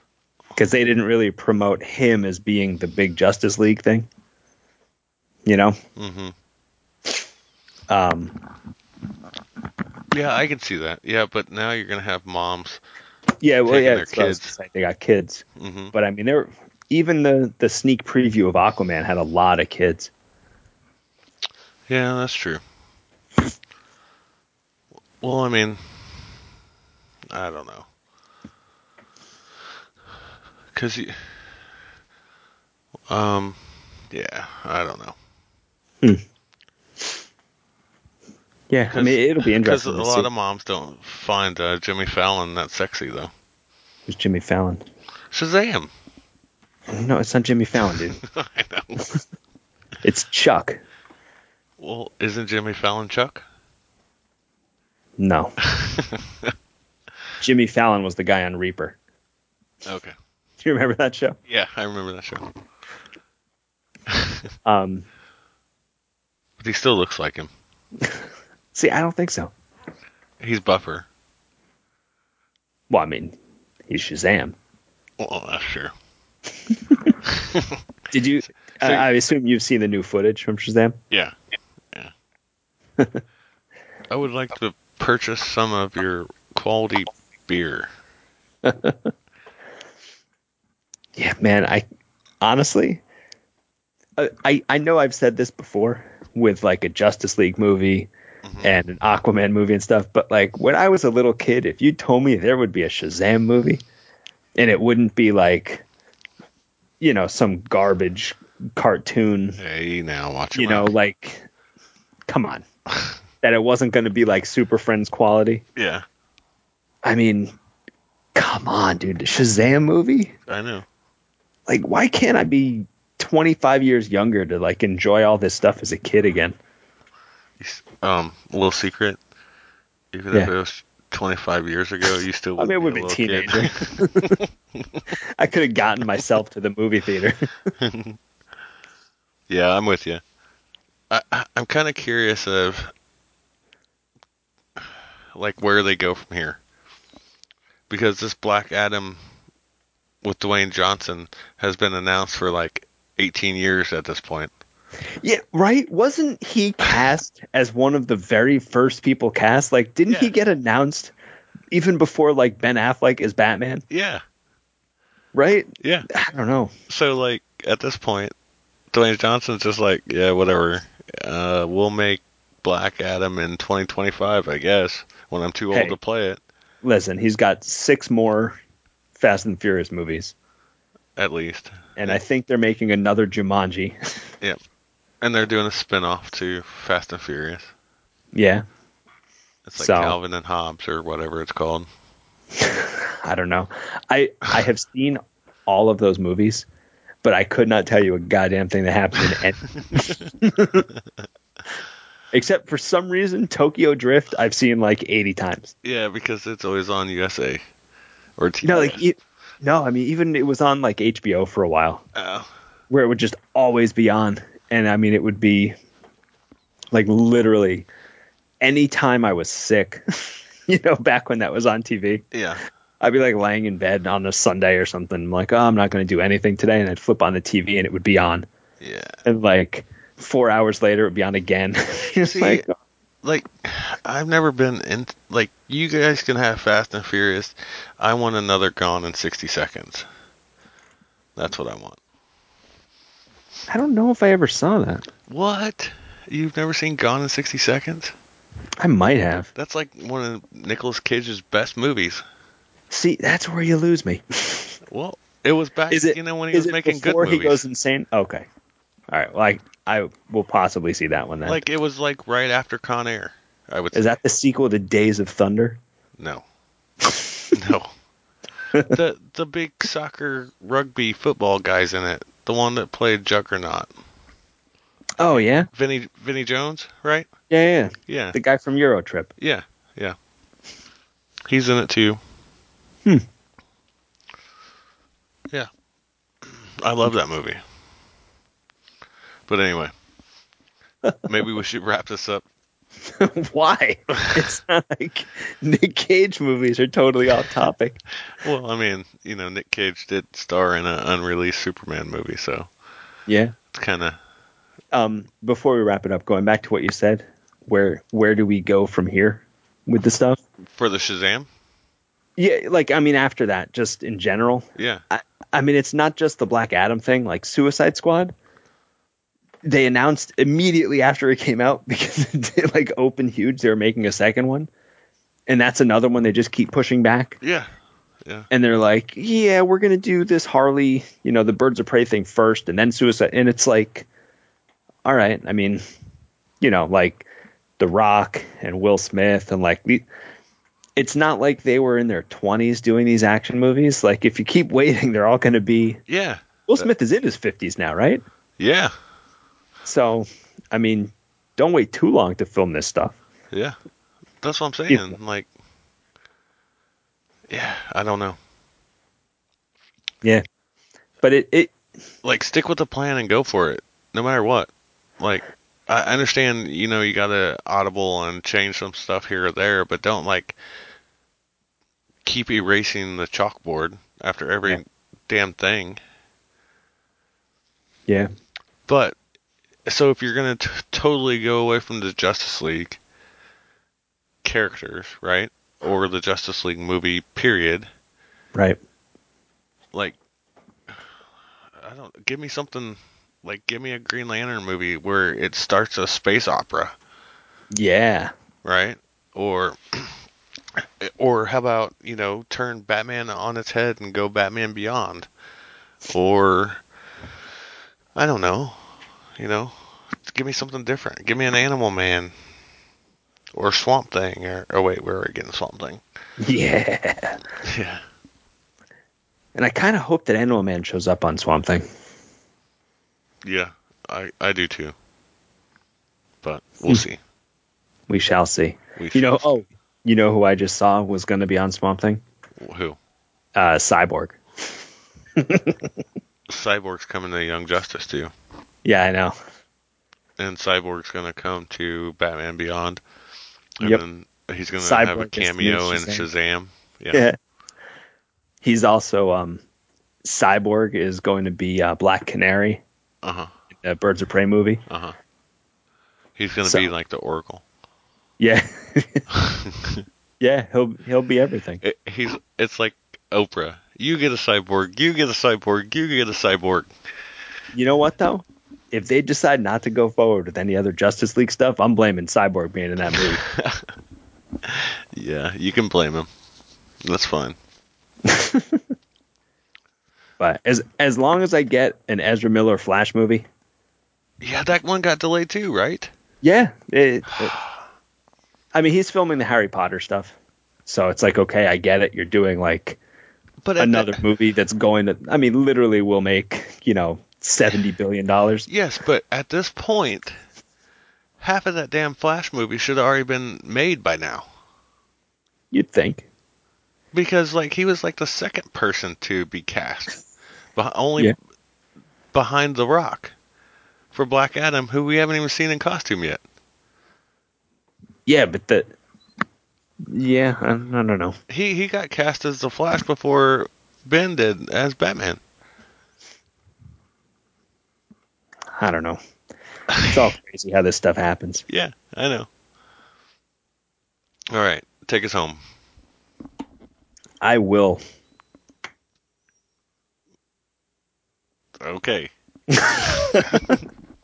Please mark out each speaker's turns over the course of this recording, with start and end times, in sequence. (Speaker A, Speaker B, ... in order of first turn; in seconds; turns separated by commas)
Speaker A: 0.6-4.1, Speaker A: 5.5-5.8, Speaker B: 6.0-6.3, Speaker A: 7.9-8.4, Speaker B: 10.1-12.8, Speaker A: 13.4-20.1, Speaker B: 13.7-14.5, Speaker B: 15.6-15.9, Speaker B: 21.9-22.6, Speaker B: 25.2-26.3, Speaker B: 27.3-27.9, Speaker B: 30.7-31.6, Speaker B: 33.1-35.1, Speaker A: 38.7-40.3, Speaker B: 38.9-43.3, Speaker A: 44.1-44.8, Speaker B: 45.3-45.9, Speaker A: 46.9-48.2, Speaker B: 48.2-49.2, Speaker A: 50.0-50.8, Speaker B: 51.8-53.4, Speaker A: 55.2-55.5, Speaker B: 55.7-56.5, Speaker A: 57.4-59.0, Speaker B: 59.9-60.1, Speaker A: 60.6-61.4, Speaker B: 61.5-62.5, Speaker B: 64.1-64.5, Speaker A: 64.7-65.1, Speaker B: 66.6-67.5, Speaker A: 68.7-69.5, Speaker B: 70.4-71.1, Speaker A: 72.9-74.6, Speaker B: 75.2-75.9, Speaker A: 76.7-77.2, Speaker B: 77.3-77.8, Speaker A: 78.1-81.0, Speaker B: 78.8-79.1, Speaker B: 84.1-87.9, Speaker A: 88.6-89.1, Speaker A: 91.2-91.8, Speaker A: 92.4-93.0, Speaker A: 94.2-98.1, Speaker B: 98.5-98.8, Speaker A: 98.6-103.8, Speaker A: 104.6-105.8, Speaker A: 107.0-109.6, Speaker B: 109.6-110.9, Speaker A: 110.5-111.5, Speaker A: 112.3-112.7, Speaker A: 113.4-115.6, Speaker B: 115.8-116.0, Speaker A: 117.0-117.5, Speaker A: 118.3-120.3, Speaker B: 120.5-120.9, Speaker A: 121.7-126.6, Speaker B: 127.6-129.2, Speaker B: 130.1-135.0, Speaker A: 132.6-134.4, Speaker A: 135.4-137.5, Speaker B: 137.8-138.2, Speaker B: 139.5-140.2, Speaker B: 141.1-142.9, Speaker B: 144.8-146.6, Speaker B: 147.9-149.2, Speaker B: 150.2-154.5, Speaker A: 155.2-161.1, Speaker A: 161.7-163.8, Speaker B: 163.9-164.2, Speaker A: 165.3-166.7, Speaker B: 165.8-166.1, Speaker B: 166.9-168.3, Speaker B: 168.9-176.4, Speaker A: 176.8-178.6, Speaker A: 179.2-180.3, Speaker B: 181.2-182.2, Speaker A: 182.0-184.0, Speaker B: 185.2-187.7, Speaker A: 188.3-188.7, Speaker B: 189.7-191.9, Speaker A: 189.8-190.2, Speaker A: 192.6-196.7, Speaker A: 197.2-200.9, Speaker B: 199.8-200.2, Speaker A: 202.3-205.7, Speaker B: 205.8-207.6, Speaker B: 208.4-209.0, Speaker A: 208.6-212.0, Speaker B: 212.2-212.5, Speaker A: 212.9-215.8, Speaker A: 216.9-217.9, Speaker A: 218.6-222.2, Speaker B: 222.3-222.6, Speaker A: 223.0-228.5, Speaker B: 228.8-229.2, Speaker A: 229.3-232.7, Speaker B: 232.2-232.7, Speaker B: 233.2-240.1, Speaker B: 241.4-242.0, Speaker A: 243.7-245.1, Speaker B: 245.3-248.2, Speaker A: 248.8-249.5, Speaker B: 249.6-252.2, Speaker A: 252.9-254.8, Speaker B: 254.9-257.7, Speaker A: 255.9-258.5, Speaker A: 259.1-261.6, Speaker B: 261.4-264.1, Speaker A: 263.9-265.8, Speaker B: 267.5-267.9, Speaker B: 268.9-273.9, Speaker A: 275.2-275.7, Speaker B: 275.7-277.3, Speaker A: 277.5-279.3, Speaker B: 278.1-278.4, Speaker B: 279.4-280.2, Speaker B: 281.5-282.2, Speaker B: 286.4-287.6, Speaker B: 289.5-289.9, Speaker A: 291.1-291.3, Speaker B: 291.3-292.4, Speaker A: 293.1-298.0, Speaker B: 298.4-302.7, Speaker A: 303.3-303.6, Speaker B: 303.7-304.2, Speaker A: 304.9-310.4, Speaker B: 310.7-311.5, Speaker A: 312.4-318.3, Speaker B: 314.8-315.0, Speaker A: 319.6-324.7, Speaker A: 325.5-327.4, Speaker B: 327.4-327.7, Speaker A: 328.5-334.1, Speaker A: 335.1-335.8, Speaker A: 336.6-337.3, Speaker A: 337.8-340.1, Speaker A: 341.0-346.0, Speaker B: 346.1-346.9, Speaker A: 346.7-348.2, Speaker B: 348.6-348.9, Speaker A: 349.9-353.2, Speaker B: 354.4-355.5, Speaker A: 354.9-355.2, Speaker B: 357.5-358.4, Speaker A: 361.2-361.8, Speaker B: 362.2-370.6, Speaker B: 372.2-376.0, Speaker B: 378.9-379.1, Speaker B: 379.9-383.0, Speaker B: 384.4-387.9, Speaker B: 391.8-396.9, Speaker A: 397.7-398.3, Speaker B: 398.6-400.2, Speaker B: 400.8-405.3, Speaker B: 406.1-406.8, Speaker B: 408.1-412.3, Speaker B: 413.5-416.0, Speaker A: 416.4-417.4, Speaker B: 417.6-418.0, Speaker A: 419.6-421.9, Speaker B: 423.4-424.9, Speaker B: 426.4-427.2, Speaker A: 428.1-432.2, Speaker B: 429.0-429.4, Speaker B: 432.6-433.0, Speaker A: 433.6-434.4, Speaker A: 435.4-435.9, Speaker B: 436.5-438.3, Speaker A: 438.8-439.4, Speaker B: 440.4-443.0, Speaker B: 443.8-447.3, Speaker A: 444.8-446.3, Speaker A: 447.1-447.4, Speaker A: 448.6-449.6, Speaker A: 450.2-452.8, Speaker B: 453.2-453.5, Speaker A: 453.8-454.8, Speaker B: 454.9-455.2, Speaker B: 456.4-457.6, Speaker A: 456.6-456.9, Speaker A: 458.4-459.3, Speaker B: 459.4-460.0, Speaker A: 460.4-461.8, Speaker B: 461.8-466.9, Speaker A: 467.7-473.4, Speaker B: 473.1-473.9, Speaker B: 474.6-476.3, Speaker B: 477.0-477.6, Speaker A: 478.2-478.8, Speaker A: 480.4-483.5, Speaker B: 484.4-486.1, Speaker A: 486.4-487.5, Speaker A: 488.7-490.3, Speaker A: 490.9-493.0, Speaker B: 493.6-494.2, Speaker A: 493.8-498.7, Speaker B: 498.7-500.4, Speaker B: 501.4-504.5, Speaker A: 505.7-506.3, Speaker B: 507.1-510.2, Speaker B: 510.8-511.4, Speaker B: 512.3-513.3, Speaker B: 514.1-516.4, Speaker A: 518.3-518.9, Speaker A: 520.1-521.4, Speaker B: 521.5-525.4, Speaker A: 528.8-529.2, Speaker B: 529.9-530.2, Speaker A: 530.1-531.6, Speaker B: 531.7-532.5, Speaker B: 534.5-535.6, Speaker A: 537.4-538.0, Speaker B: 541.8-542.3, Speaker A: 542.7-543.7, Speaker B: 542.9-543.8